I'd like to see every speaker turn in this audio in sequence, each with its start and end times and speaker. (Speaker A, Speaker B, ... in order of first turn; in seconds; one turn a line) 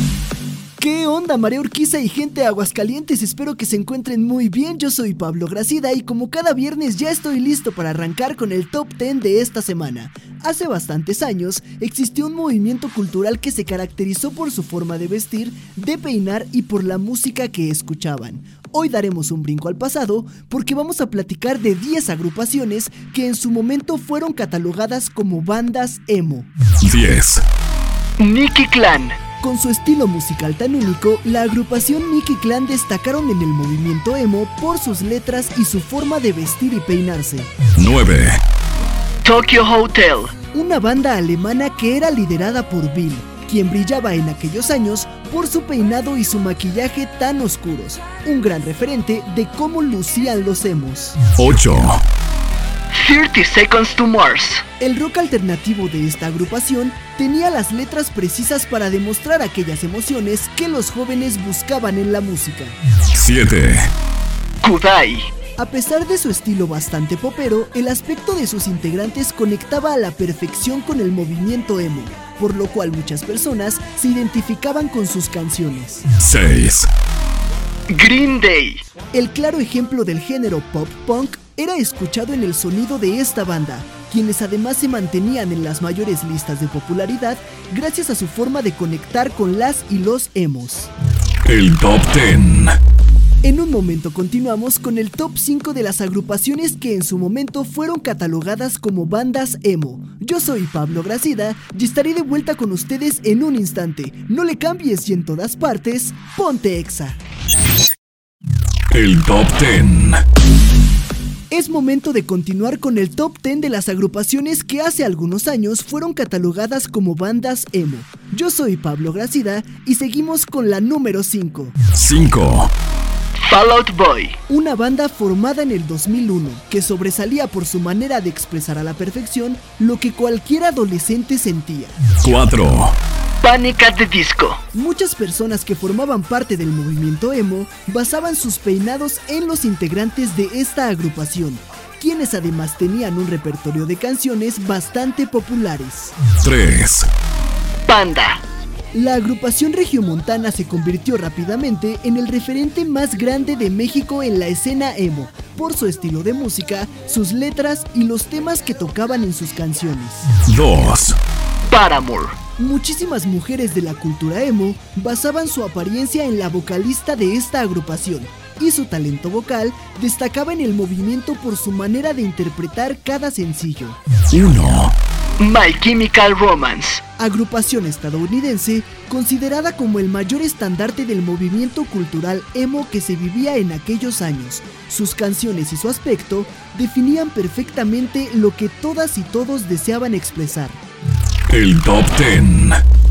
Speaker A: 0.8-26.5
Speaker B: 26.8-27.4
Speaker C: 28.2-29.2
Speaker A: 29.4-37.5
Speaker B: 37.8-38.4
Speaker C: 39.2-40.3
Speaker A: 40.5-51.2
Speaker B: 51.4-52.0
Speaker C: 52.9-54.6
Speaker A: 54.8-62.8
Speaker B: 63.1-63.9
Speaker C: 64.6-65.3
Speaker A: 65.6-76.1
Speaker B: 76.1-76.9
Speaker C: 77.9-78.8
Speaker A: 79.1-90.9
Speaker B: 91.4-92.8
Speaker A: 93.4-107.2
Speaker B: 108.9-110.2
Speaker A: 111.5-121.8
Speaker B: 121.9-122.7
Speaker C: 123.5-124.4
Speaker A: 124.5-132.0
Speaker B: 132.2-133.0
Speaker C: 133.4-134.6
Speaker A: 134.7-146.2
Speaker B: 146.4-147.1
Speaker C: 147.9-148.4
Speaker A: 148.9-160.4
Speaker B: 160.5-161.2
Speaker C: 161.7-162.4
Speaker A: 162.6-174.0
Speaker B: 174.3-174.9
Speaker C: 175.4-177.0
Speaker A: 177.2-190.8
Speaker B: 191.5-192.8